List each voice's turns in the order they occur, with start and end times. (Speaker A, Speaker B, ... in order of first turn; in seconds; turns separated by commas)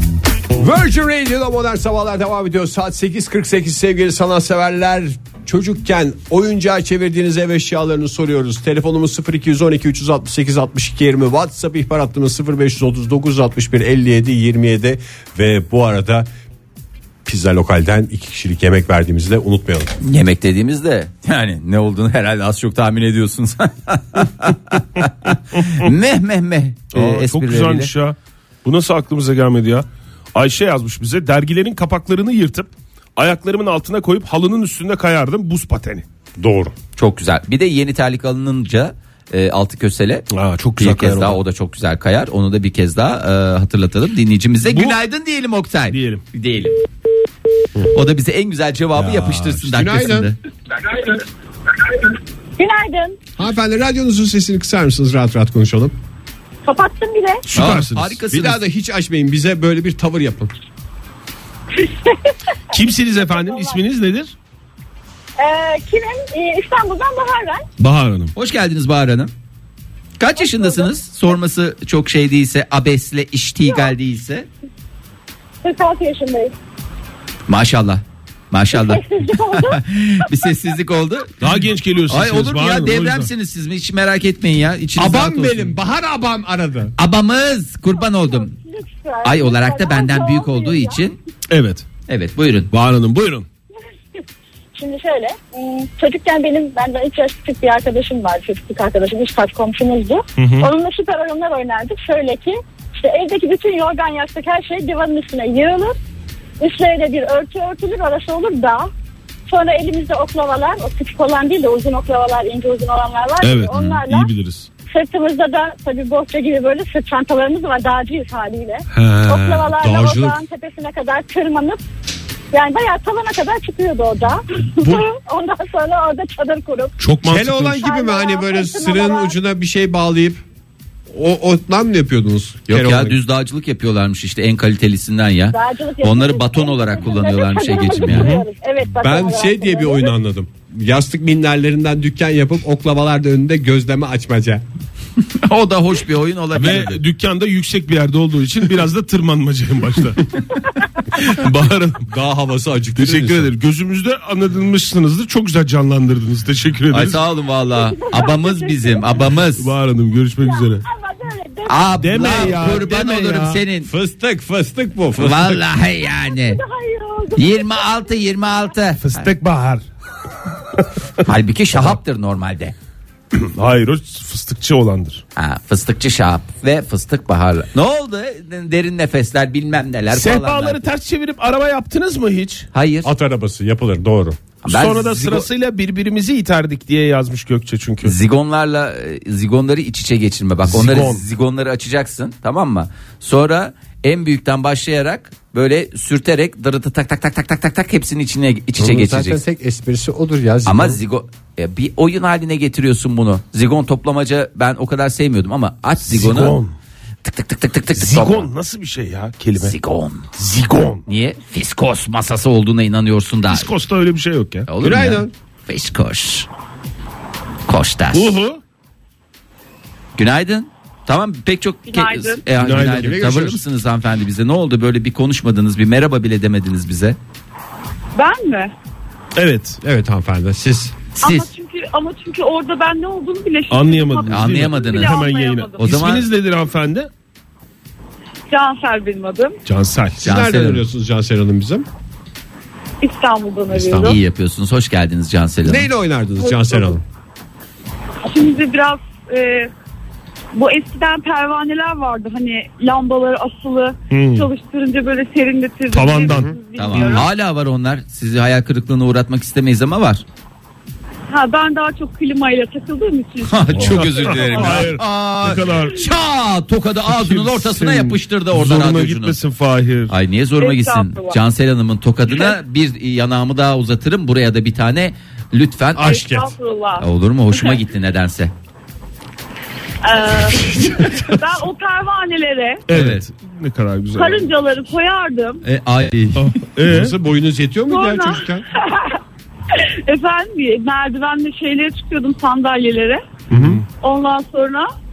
Speaker A: 0.6-16.3, Speaker A: 17.2-19.9, Speaker B: 20.0-27.9, Speaker C: 26.9-36.0, Speaker A: 36.4-36.7, Speaker B: 37.0-46.7, Speaker C: 40.3-41.4, Speaker C: 44.7-45.0, Speaker C: 45.9-46.2, Speaker B: 47.9-50.4, Speaker A: 49.0-50.3, Speaker D: 52.6-53.2, Speaker A: 53.4-55.9, Speaker D: 56.7-57.5, Speaker C: 57.5-58.2, Speaker B: 57.5-58.6, Speaker A: 58.3-60.5, Speaker D: 61.7-62.3, Speaker C: 62.7-64.3, Speaker D: 63.2-63.8, Speaker D: 65.4-67.7, Speaker C: 67.8-68.3, Speaker B: 68.3-69.3, Speaker B: 70.2-74.5, Speaker D: 70.4-70.9, Speaker D: 73.7-73.9, Speaker D: 75.6-76.5, Speaker B: 77.5-85.8, Speaker D: 78.7-79.8, Speaker C: 81.4-83.3, Speaker A: 85.0-86.9, Speaker B: 87.0-88.5, Speaker D: 88.0-91.0, Speaker B: 89.2-91.2, Speaker C: 91.5-91.8, Speaker B: 92.1-92.7, Speaker C: 92.7-93.5, Speaker D: 94.8-106.0, Speaker C: 100.4-100.7, Speaker D: 106.6-108.9, Speaker D: 109.5-114.3, Speaker C: 113.4-114.7, Speaker D: 114.9-121.8, Speaker C: 118.9-119.7, Speaker A: 119.3-120.4, Speaker D: 122.5-127.0, Speaker C: 127.0-127.8, Speaker A: 127.2-130.4, Speaker D: 127.7-129.4, Speaker A: 131.1-133.2, Speaker B: 132.7-138.4, Speaker D: 135.5-140.1, Speaker C: 138.1-138.5, Speaker A: 138.9-144.6, Speaker B: 145.2-147.0, Speaker C: 146.5-150.3, Speaker C: 151.1-152.1, Speaker A: 152.1-153.5, Speaker C: 153.0-157.2, Speaker B: 156.9-159.7, Speaker D: 157.7-159.2, Speaker C: 159.6-160.8, Speaker D: 160.4-162.5, Speaker B: 161.7-163.9, Speaker C: 162.0-163.6, Speaker A: 163.8-165.6, Speaker B: 165.2-166.6, Speaker D: 166.3-168.0, Speaker B: 167.3-169.3, Speaker C: 169.0-169.8, Speaker B: 171.2-172.8, Speaker C: 173.4-175.2, Speaker B: 175.4-180.9, Speaker C: 180.1-182.7, Speaker B: 182.7-183.1, Speaker A: 183.0-184.4, Speaker B: 184.6-185.5, Speaker C: 184.7-188.1, Speaker B: 188.0-199.4, Speaker C: 190.7-191.2, Speaker A: 198.8-201.0, Speaker B: 200.7-206.6, Speaker C: 206.0-206.7, Speaker B: 207.2-208.5, Speaker C: 208.0-209.8, Speaker B: 209.6-210.3, Speaker C: 210.4-211.0, Speaker B: 211.1-213.7, Speaker C: 213.5-214.7, Speaker B: 214.7-216.5, Speaker A: 214.8-215.3, Speaker B: 217.7-218.3, Speaker C: 218.1-218.6, Speaker B: 220.2-227.2, Speaker E: 221.9-222.4, Speaker C: 222.6-223.3, Speaker A: 222.7-223.6, Speaker E: 228.2-228.7, Speaker C: 229.4-229.8, Speaker A: 229.8-230.9, Speaker E: 231.2-236.2, Speaker B: 231.2-231.5, Speaker C: 233.7-237.1, Speaker B: 234.3-235.2, Speaker B: 235.8-236.3, Speaker E: 238.5-239.6, Speaker C: 239.7-240.2, Speaker A: 240.2-241.9, Speaker B: 240.2-240.8, Speaker E: 243.0-244.2, Speaker B: 244.0-245.9, Speaker A: 245.7-247.0, Speaker E: 246.5-246.9, Speaker E: 248.2-249.7, Speaker E: 250.5-257.3, Speaker C: 254.1-254.5, Speaker C: 255.9-257.2, Speaker B: 256.8-260.2, Speaker E: 261.3-264.9, Speaker B: 263.5-269.4, Speaker C: 263.7-266.1, Speaker C: 267.1-270.1, Speaker B: 270.1-276.3, Speaker E: 270.6-271.4, Speaker E: 272.3-272.6, Speaker A: 276.0-276.5, Speaker E: 276.0-277.8, Speaker B: 277.0-278.5, Speaker E: 280.0-282.8, Speaker C: 282.9-284.5, Speaker B: 282.9-283.3, Speaker E: 284.1-285.6, Speaker B: 285.6-286.6, Speaker C: 286.4-287.1, Speaker A: 286.9-288.6, Speaker E: 287.9-293.2, Speaker A: 293.5-293.8, Speaker C: 293.6-293.8, Speaker E: 294.0-294.9